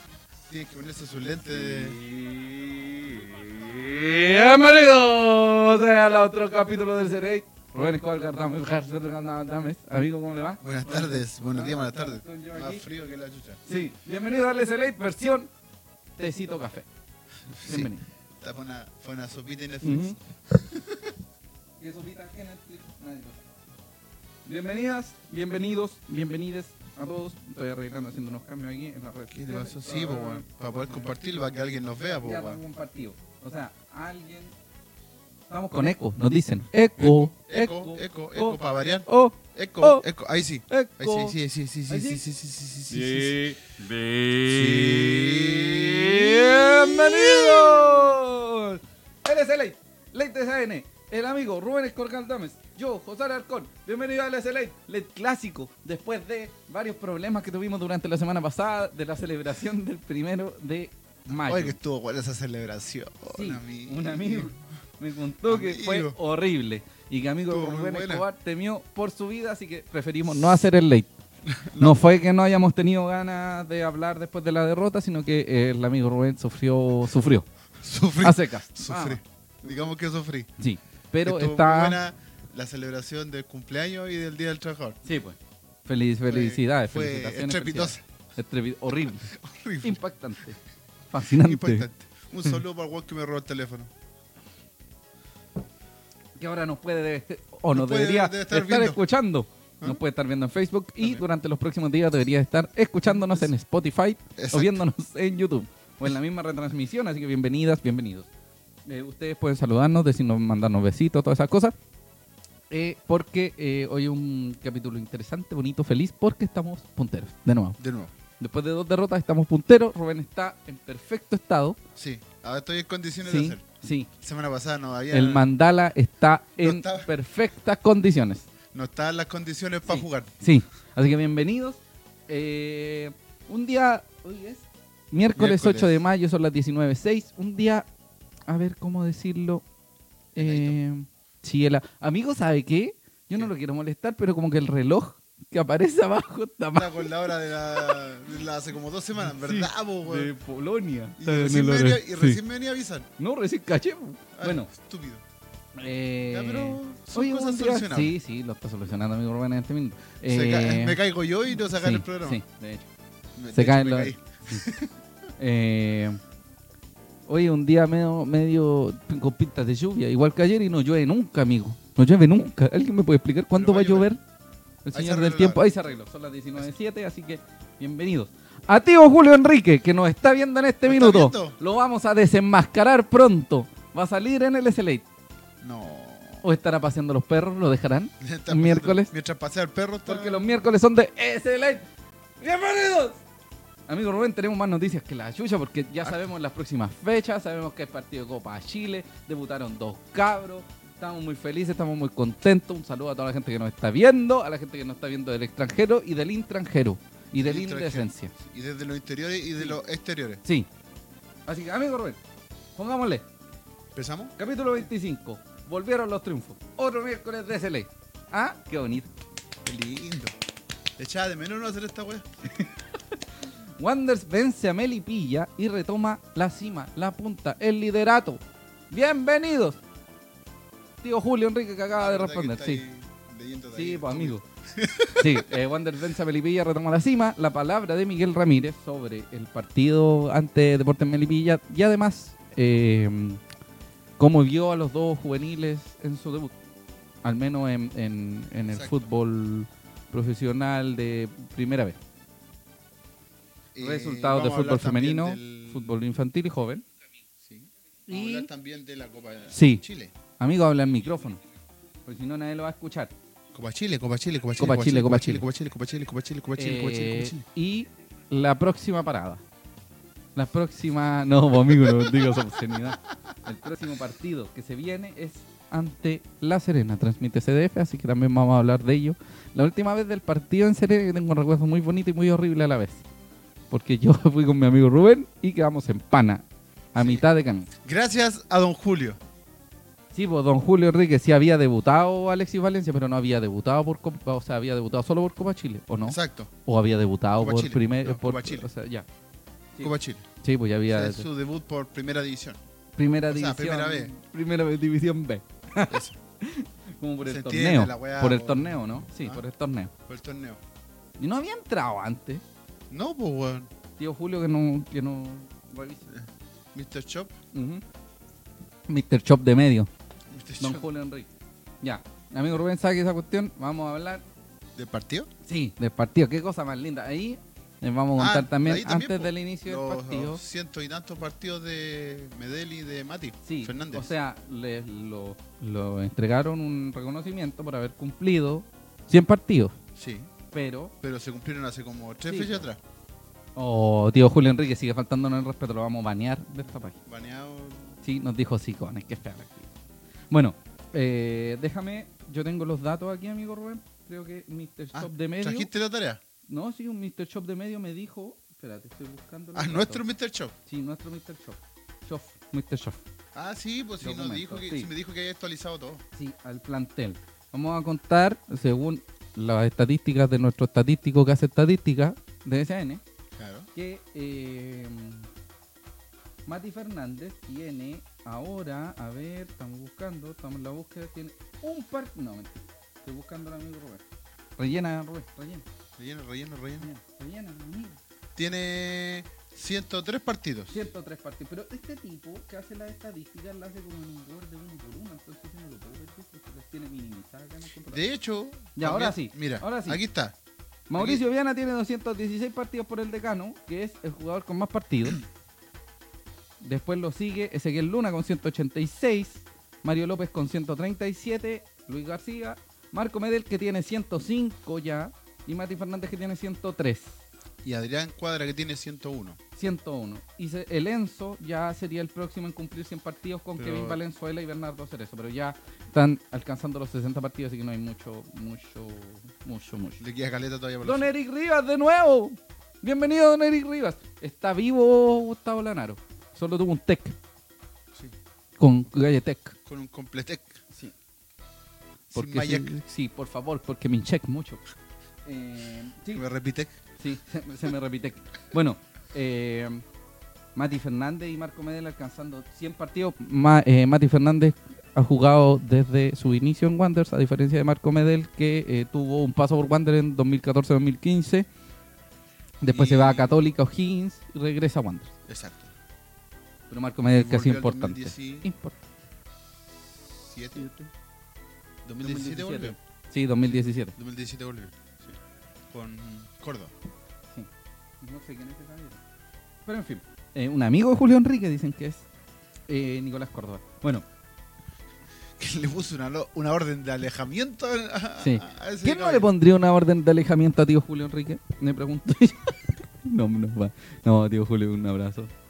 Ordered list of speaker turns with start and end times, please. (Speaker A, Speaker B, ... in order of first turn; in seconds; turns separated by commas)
Speaker A: 0.5-2.0, Speaker B: 2.0-12.8, Speaker A: 10.6-13.6, Speaker B: 13.7-15.5, Speaker B: 16.2-16.9, Speaker A: 17.5-21.1, Speaker B: 17.6-18.0, Speaker B: 19.8-20.2, Speaker B: 21.8-23.4, Speaker B: 24.4-30.4, Speaker A: 29.3-32.6, Speaker B: 32.2-34.5, Speaker B: 35.5-40.0, Speaker A: 37.0-43.5, Speaker B: 40.7-41.3, Speaker B: 41.9-42.2, Speaker B: 42.9-61.8, Speaker A: 44.4-48.0, Speaker A: 61.3-64.6, Speaker B: 63.3-71.1, Speaker A: 65.5-66.2, Speaker A: 67.5-68.2, Speaker A: 71.4-72.0, Speaker B: 71.8-77.5, Speaker A: 77.8-80.5, Speaker B: 78.2-79.2, Speaker B: 80.6-82.0, Speaker A: 81.2-85.0, Speaker B: 85.0-90.6, Speaker A: 86.2-88.0, Speaker A: 88.9-90.0, Speaker B: 91.1-91.9, Speaker A: 91.1-93.9, Speaker B: 96.4-108.3, Speaker A: 97.7-99.0, Speaker A: 103.0-103.5, Speaker A: 104.3-104.8, Speaker B: 108.8-111.7, Speaker B: 112.7-117.8, Speaker A: 117.8-118.1, Speaker B: 118.4-121.8, Speaker A: 122.0-123.6, Speaker B: 123.2-124.1, Speaker A: 124.2-125.5, Speaker B: 125.1-128.4, Speaker A: 126.6-127.1, Speaker A: 128.7-130.3, Speaker B: 129.8-137.9, Speaker A: 135.3-136.0, Speaker B: 138.5-139.6, Speaker B: 140.3-147.1, Speaker A: 140.3-140.8, Speaker A: 146.7-150.3, Speaker B: 147.7-148.0, Speaker B: 149.2-152.4, Speaker A: 151.2-153.1, Speaker B: 153.2-154.7, Speaker A: 154.3-155.2, Speaker B: 155.8-161.0, Speaker A: 156.3-158.1, Speaker A: 160.2-162.4, Speaker B: 161.7-162.9, Speaker A: 163.4-164.9, Speaker B: 163.5-164.6, Speaker B: 165.4-166.2, Speaker B: 167.3-174.2, Speaker A: 173.5-174.1, Speaker B: 174.8-185.0, Speaker A: 174.9-175.6, Speaker A: 180.8-181.6, Speaker A: 185.6-186.4, Speaker B: 186.4-189.1, Speaker A: 188.2-190.5, Speaker B: 190.1-191.9, Speaker B: 192.4-193.2, Speaker B: 193.9-208.3, Speaker A: 207.4-210.4, Speaker B: 211.5-212.2, Speaker B: 212.8-213.2, Speaker A: 213.9-214.8, Speaker B: 214.4-219.1, Speaker A: 219.6-220.3, Speaker A: 221.0-222.3, Speaker B: 222.4-229.8, Speaker B: 231.0-232.8, Speaker A: 231.9-235.5, Speaker B: 233.7-234.4, Speaker B: 235.2-243.4, Speaker B: 244.2-246.5, Speaker B: 247.2-252.0, Speaker A: 248.7-249.1, Speaker A: 253.7-256.0, Speaker B: 253.8-256.8, Speaker A: 257.4-260.1, Speaker B: 258.1-258.5, Speaker B: 259.5-259.8, Speaker B: 260.4-261.4, Speaker B: 262.1-263.1, Speaker A: 263.5-267.4, Speaker B: 264.6-265.4, Speaker B: 266.6-269.4, Speaker B: 270.3-283.1, Speaker A: 271.7-272.8, Speaker B: 283.7-287.7, Speaker A: 286.9-287.2, Speaker A: 287.8-289.2, Speaker B: 290.1-299.1, Speaker A: 296.1-296.5, Speaker A: 297.4-298.7, Speaker B: 299.7-301.3, Speaker A: 299.8-300.2, Speaker A: 300.9-302.6, Speaker B: 302.9-309.9, Speaker A: 303.3-304.1, Speaker A: 305.9-306.2, Speaker A: 307.2-309.4, Speaker A: 310.1-310.6, Speaker B: 311.2-312.4, Speaker A: 312.9-313.7, Speaker B: 314.0-316.1, Speaker A: 316.1-317.3, Speaker B: 317.5-317.8, Speaker B: 318.9-319.9, Speaker A: 320.3-320.9, Speaker B: 320.6-321.3, Speaker B: 321.8-324.2, Speaker A: 324.8-325.3, Speaker B: 325.4-330.4, Speaker A: 328.1-334.1, Speaker B: 333.4-339.8, Speaker A: 339.9-340.3, Speaker B: 340.5-340.9, Speaker A: 341.0-342.8, Speaker B: 342.2-342.6, Speaker B: 343.6-347.0, Speaker A: 347.1-348.0, Speaker B: 348.0-349.7, Speaker B: 350.3-355.7, Speaker A: 354.9-356.2, Speaker B: 356.5-360.0, Speaker A: 359.5-360.5, Speaker B: 360.6-363.0, Speaker A: 363.3-366.0, Speaker B: 364.0-364.9, Speaker B: 366.1-373.0, Speaker A: 373.3-373.7, Speaker B: 373.7-375.3, Speaker B: 376.4-384.0, Speaker B: 384.6-385.6, Speaker A: 386.0-386.9, Speaker B: 386.8-388.0, Speaker A: 388.4-390.8, Speaker B: 390.7-398.0, Speaker A: 397.9-400.3, Speaker B: 398.7-400.0, Speaker B: 400.9-405.2, Speaker A: 400.9-401.2, Speaker B: 406.6-417.2, Speaker A: 417.6-419.4, Speaker B: 419.6-430.0, Speaker A: 423.6-424.0, Speaker A: 430.0-431.1, Speaker B: 430.8-437.1, Speaker B: 438.6-439.6, Speaker A: 439.6-440.6, Speaker B: 442.1-444.6, Speaker A: 442.1-442.7, Speaker B: 445.2-446.2, Speaker A: 446.1-446.7, Speaker B: 447.0-449.8, Speaker B: 450.6-461.5, Speaker B: 462.6-465.1, Speaker A: 462.7-463.4, Speaker A: 465.3-465.7, Speaker B: 466.7-468.8, Speaker A: 467.1-468.5, Speaker A: 470.1-470.7, Speaker B: 470.5-470.9, Speaker A: 471.8-472.8, Speaker B: 472.0-473.9, Speaker A: 473.5-475.2, Speaker A: 475.7-476.7, Speaker B: 478.0-479.0, Speaker B: 479.6-482.1, Speaker B: 482.7-484.0, Speaker A: 485.4-489.3, Speaker B: 488.2-495.3